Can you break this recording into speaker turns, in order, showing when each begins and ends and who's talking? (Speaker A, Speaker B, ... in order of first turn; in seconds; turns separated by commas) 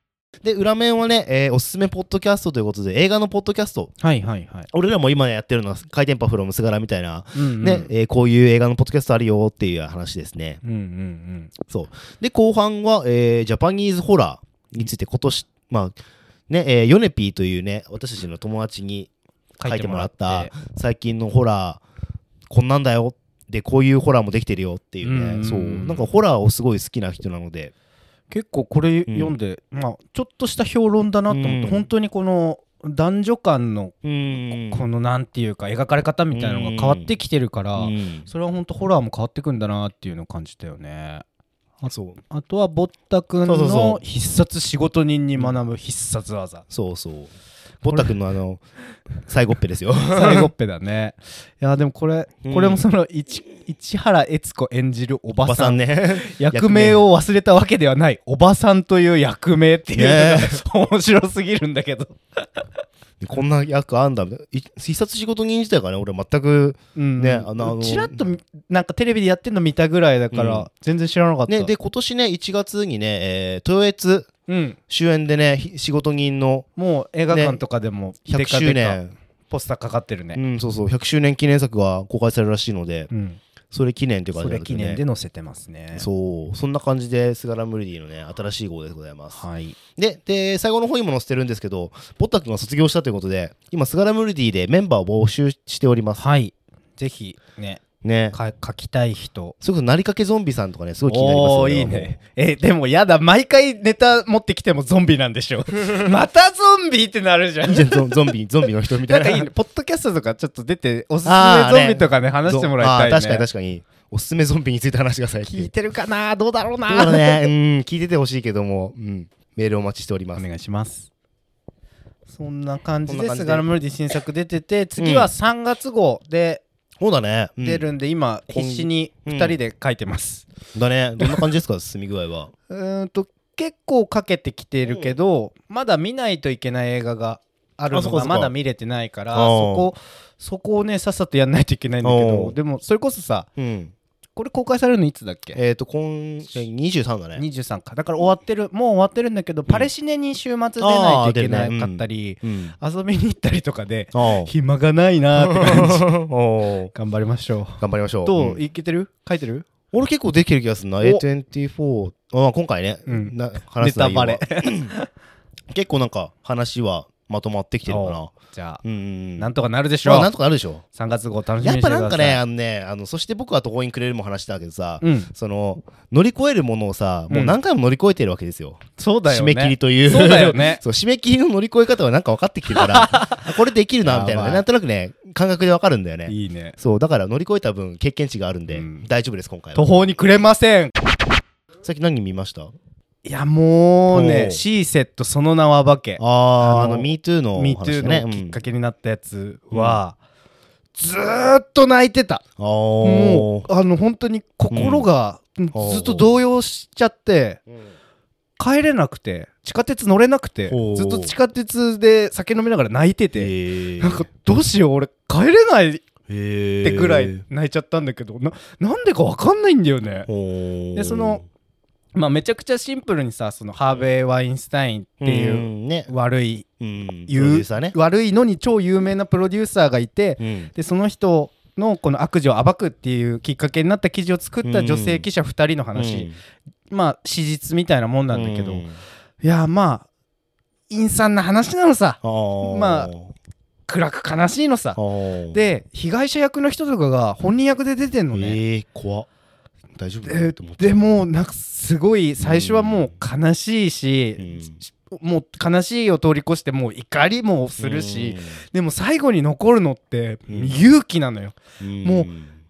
Speaker A: 0.4-3.9, Speaker B: 4.0-4.7, Speaker A: 4.7-10.6, Speaker B: 7.3-7.9, Speaker B: 10.6-11.5, Speaker A: 11.7-15.9, Speaker A: 16.5-19.1, Speaker B: 19.6-20.5, Speaker A: 19.6-21.8, Speaker A: 22.5-27.7, Speaker B: 25.0-26.0, Speaker B: 28.3-33.9, Speaker A: 29.1-29.3, Speaker A: 31.3-31.9, Speaker A: 34.0-34.9, Speaker B: 34.5-41.2, Speaker A: 36.3-37.1, Speaker A: 37.8-38.3, Speaker A: 41.8-42.2, Speaker B: 42.3-46.6, Speaker A: 43.5-44.0, Speaker A: 46.7-48.6, Speaker A: 49.2-50.5, Speaker B: 50.1-62.7, Speaker A: 52.4-52.8, Speaker A: 55.4-57.0, Speaker A: 59.9-60.6, Speaker A: 63.2-68.2, Speaker B: 66.9-71.7, Speaker A: 70.3-70.7, Speaker A: 71.5-74.3, Speaker B: 74.5-74.8, Speaker A: 74.9-76.7, Speaker B: 76.8-80.4, Speaker A: 77.3-77.6, Speaker A: 78.3-79.1, Speaker A: 80.3-83.1, Speaker B: 83.1-83.4, Speaker A: 83.7-85.0, Speaker B: 84.3-86.1, Speaker A: 85.9-89.4, Speaker B: 89.3-89.8, Speaker A: 90.0-96.2, Speaker B: 96.2-99.5, Speaker A: 98.0-98.4, Speaker A: 99.6-102.2, Speaker B: 101.1-108.2, Speaker A: 107.6-109.5, Speaker B: 109.0-113.5, Speaker A: 111.2-115.7, Speaker B: 115.4-117.5, Speaker A: 116.9-120.4, Speaker B: 120.3-121.1, Speaker B: 122.3-126.6, Speaker A: 123.1-123.7, Speaker A: 125.0-125.3, Speaker A: 127.0-127.8, Speaker B: 127.6-130.4, Speaker A: 128.5-129.6, Speaker A: 130.7-132.5, Speaker B: 132.7-143.5, Speaker A: 134.9-135.1, Speaker A: 137.9-138.5, Speaker A: 139.3-139.9, Speaker A: 142.0-142.6, Speaker A: 143.6-143.9, Speaker B: 144.3-145.6, Speaker A: 145.5-147.4, Speaker B: 147.3-156.1, Speaker A: 150.8-152.7, Speaker A: 154.1-154.5, Speaker A: 155.4-156.9, Speaker B: 156.9-159.7, Speaker A: 157.8-158.6, Speaker A: 159.9-164.9, Speaker B: 163.1-165.1, Speaker A: 165.7-168.3, Speaker B: 167.9-168.8, Speaker A: 168.8-169.5, Speaker B: 169.4-170.3, Speaker A: 170.0-170.8, Speaker B: 170.9-172.4, Speaker A: 171.6-190.1, Speaker B: 175.0-175.3, Speaker B: 177.3-177.6, Speaker B: 179.0-180.8, Speaker B: 182.7-183.5, Speaker B: 184.0-184.6, Speaker B: 186.3-186.8, Speaker B: 188.7-189.1, Speaker B: 189.7-190.9, Speaker A: 191.8-192.7, Speaker B: 193.2-200.2, Speaker A: 194.1-194.6, Speaker A: 196.2-198.6, Speaker A: 199.7-200.0, Speaker B: 201.0-202.4, Speaker A: 202.6-203.7, Speaker B: 203.0-207.6, Speaker A: 204.7-205.1, Speaker A: 205.7-206.3, Speaker B: 208.6-216.0, Speaker A: 210.7-211.3, Speaker A: 213.3-214.3, Speaker A: 216.3-217.4, Speaker B: 216.8-220.3, Speaker A: 220.3-221.4, Speaker B: 220.9-221.4, Speaker B: 222.1-226.7, Speaker A: 225.2-226.1, Speaker A: 226.8-227.9, Speaker B: 227.3-236.3, Speaker A: 230.4-230.7, Speaker A: 234.6-235.2, Speaker A: 235.9-236.3, Speaker B: 236.9-238.8, Speaker A: 238.3-239.0, Speaker B: 239.4-240.1, Speaker B: 240.9-243.1, Speaker A: 242.2-243.3, Speaker B: 243.9-245.0, Speaker A: 244.9-245.6, Speaker B: 245.5-248.6, Speaker A: 248.3-249.3, Speaker A: 249.9-251.1, Speaker B: 250.2-262.3, Speaker A: 252.4-253.2, Speaker A: 254.4-254.8, Speaker A: 257.8-258.6, Speaker A: 260.5-260.8, Speaker A: 261.8-262.5